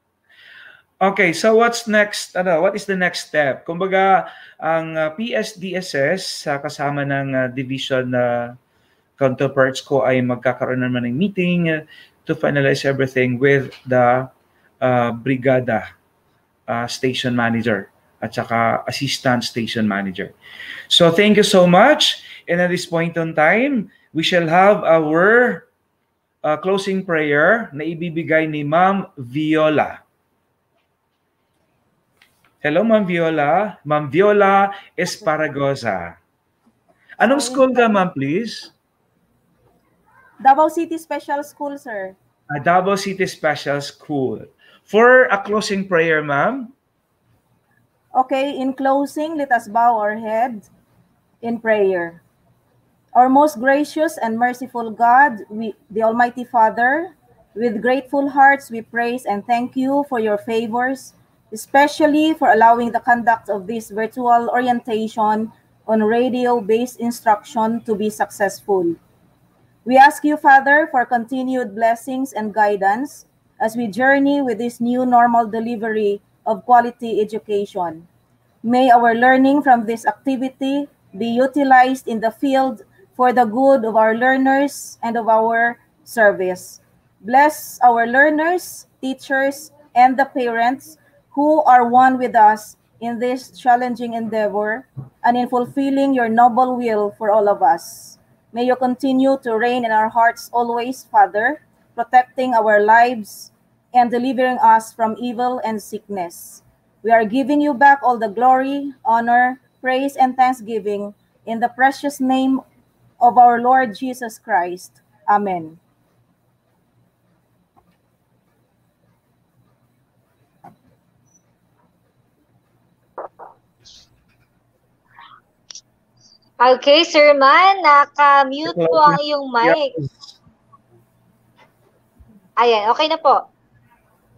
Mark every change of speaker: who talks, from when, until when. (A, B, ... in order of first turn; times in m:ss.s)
0:01.0-0:08.4 A
0:09.2-0:14.3 A
0:14.8-0:15.8 A
0:16.7-0:20.3 A
0:20.9-0:25.7 A
0:26.4-0:30.0 A
0:32.6-0:36.2 A
0:37.2-0:38.7 A
0:37.2-0:38.0 B
0:40.4-0:42.2 B
0:42.5-0:46.7 A
0:48.1-0:50.7 B
0:51.4-0:52.2 B
0:53.1-1:09.0 B
1:09.8-1:18.1 B
1:18.6-1:52.6 B
1:53.2-1:55.8 B
2:06.6-2:09.9 C
2:08.7-2:10.4 A
2:12.6-2:13.4 C